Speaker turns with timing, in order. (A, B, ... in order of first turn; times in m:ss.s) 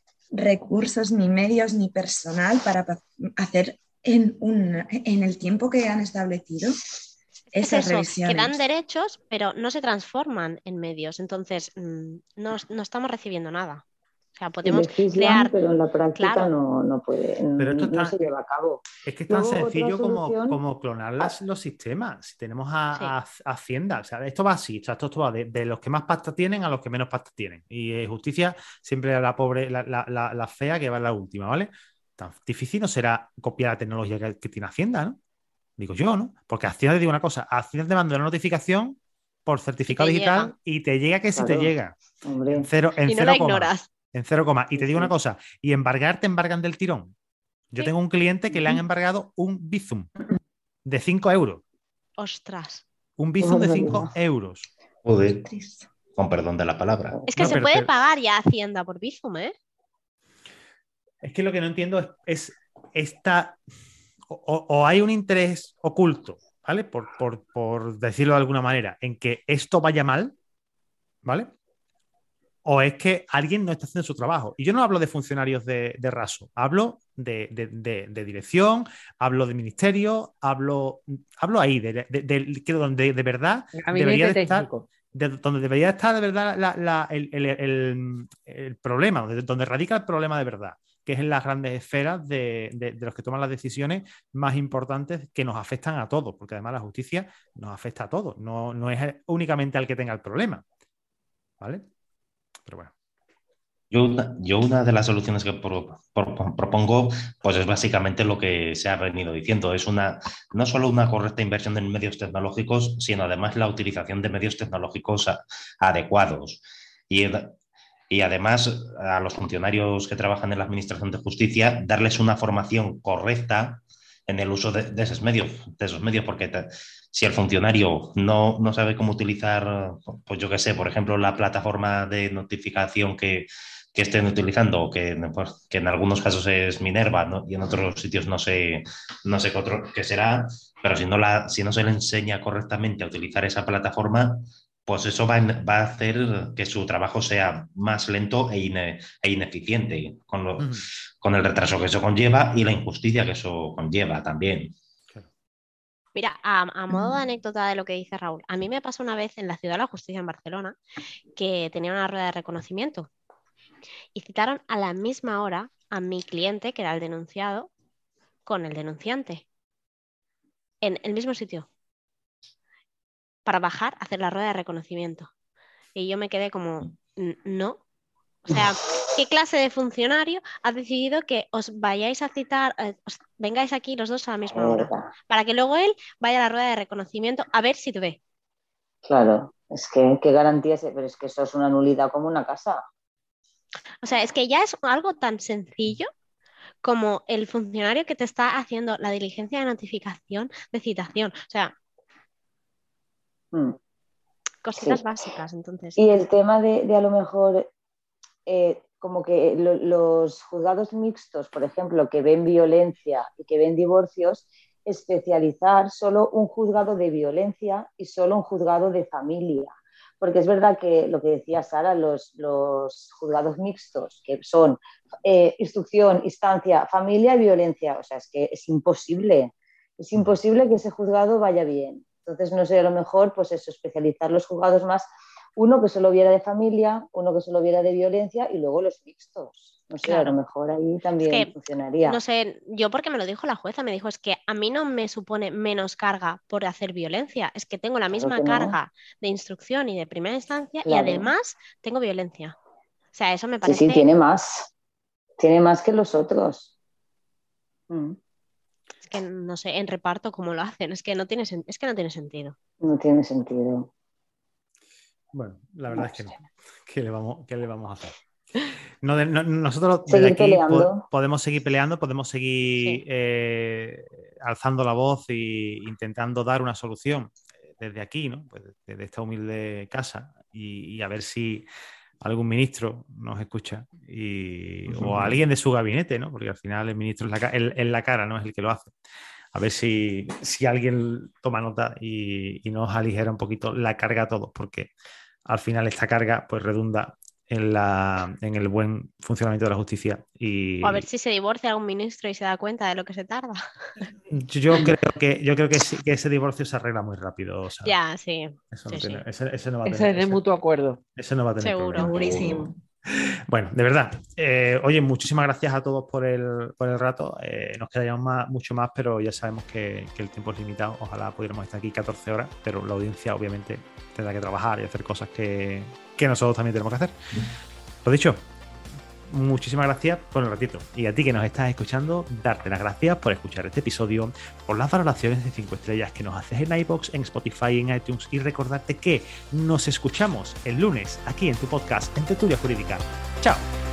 0:00.3-0:06.8 A
0:07.5-0:08.6 A
0:07.5-0:13.8 B
0:14.3-0:15.5 B
0:14.6-0:20.6 C
0:16.1-0:16.5 B
0:17.6-0:18.3 D
0:19.0-0:35.2 D
0:35.8-0:42.0 D
0:39.9-0:40.5 B
0:41.3-0:41.7 C
0:42.2-0:42.7 C
0:42.5-0:47.1 D
0:43.0-0:43.9 B
0:44.8-0:45.1 C
0:47.7-0:50.1 D
0:50.8-0:51.6 D
0:52.2-0:52.8 B
0:53.2-0:54.7 D
0:53.4-0:54.1 C
0:55.0-0:55.4 E
0:55.4-0:55.9 A
0:56.2-0:57.2 E
0:57.3-0:59.5 B
0:57.4-0:57.9 D
1:01.2-1:03.6 D
1:04.3-1:10.3 D
1:11.2-1:11.5 D
1:12.6-1:40.6 D
1:23.7-1:24.9 F
1:41.6-1:41.8 D
1:42.6-1:42.9 D
1:43.9-1:57.5 E
1:58.1-2:34.7 E
2:30.6-2:30.9 D
2:36.1-2:40.8 B
2:41.4-2:43.1 B
2:44.1-2:47.7 B
2:48.4-2:49.4 B
2:50.8-2:51.7 B
2:53.4-2:55.3 B
2:55.9-2:57.8 B
2:58.4-3:08.2 B
3:04.5-3:05.1 C
3:09.0-3:12.8 C
3:14.0-3:16.1 B
3:16.8-3:21.7 B
3:24.6-3:26.0 B
3:24.8-3:25.0 C
3:26.0-3:27.7 C
3:28.5-4:02.2 C
4:00.0-4:00.4 B
4:01.2-4:01.5 B
4:02.0-4:12.6 B
4:08.1-4:08.8 C
4:10.8-4:11.3 C
4:13.1-4:14.0 B
4:13.6-4:14.7 C
4:15.4-4:16.7 C
4:17.9-4:18.2 C
4:19.0-4:22.6 B
4:22.8-4:23.9 C
4:25.3-4:41.7 D
4:25.9-4:26.3 C
4:30.1-4:31.0 C
4:42.2-4:48.9 D
4:49.5-4:54.9 D
4:55.5-5:01.1 D
5:00.8-5:04.0 B
5:04.3-5:08.0 D
5:07.8-5:09.2 B
5:08.7-5:10.4 D
5:09.8-5:11.0 F
5:11.1-5:27.1 D
5:11.6-5:12.3 B
5:12.0-5:12.8 A
5:12.1-5:12.5 E
5:28.0-5:28.5 D
5:29.2-5:43.7 D